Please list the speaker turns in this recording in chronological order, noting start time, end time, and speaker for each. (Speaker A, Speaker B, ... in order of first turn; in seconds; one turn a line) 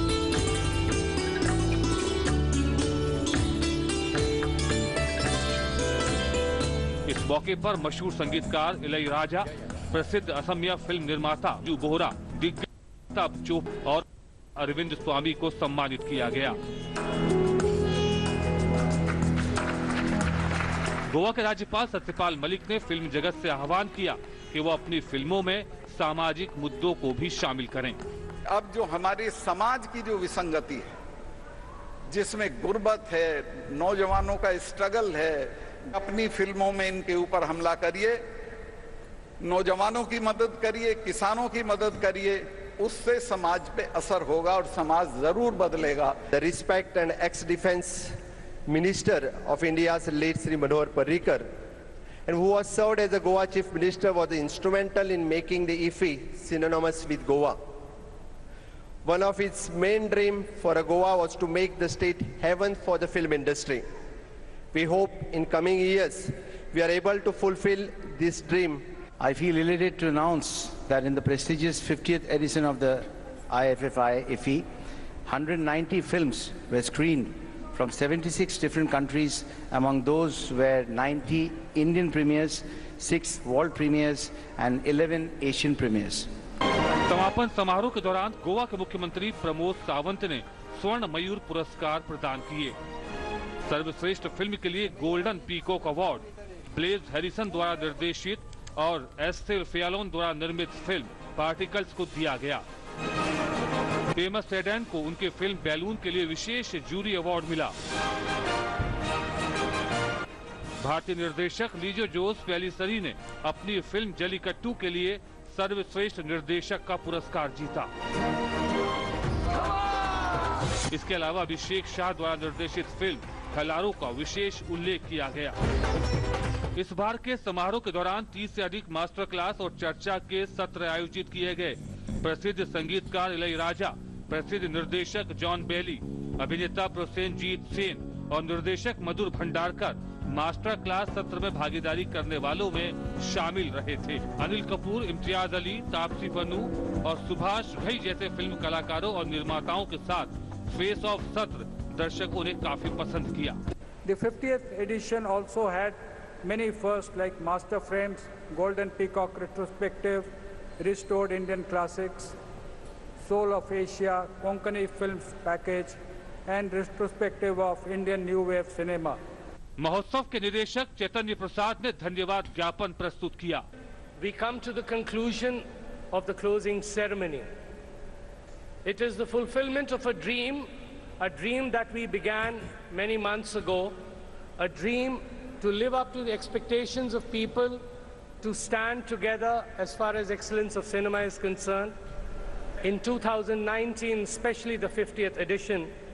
Speaker A: 7.1-14.0
Speaker A: 14.6-16.6
Speaker A: 21.1-28.0
Speaker B: 28.5-30.9
Speaker B: 32.1-38.2
Speaker B: 39.4-46.2
Speaker C: 46.3-48.1
Speaker C: 48.7-51.4
Speaker C: 52.3-57.6
Speaker C: 59.0-63.8
Speaker C: 64.7-68.8
Speaker D: 69.2-74.7
Speaker D: 75.2-86.3
Speaker A: 87.1-92.8
Speaker A: 93.6-102.6
Speaker A: 104.1-107.7
Speaker A: 110.8-117.9
Speaker A: 120.9-125.6
Speaker A: 126.7-153.6
Speaker E: 154.0-160.3
Speaker E: 160.8-162.3
Speaker E: 163.2-169.2
Speaker A: 169.8-173.6
Speaker F: 174.2-177.5
Speaker F: 178.8-180.7
Speaker F: 181.2-183.9
Speaker F: 184.6-187.8
Speaker F: 188.4-191.9
Speaker F: 192.8-195.9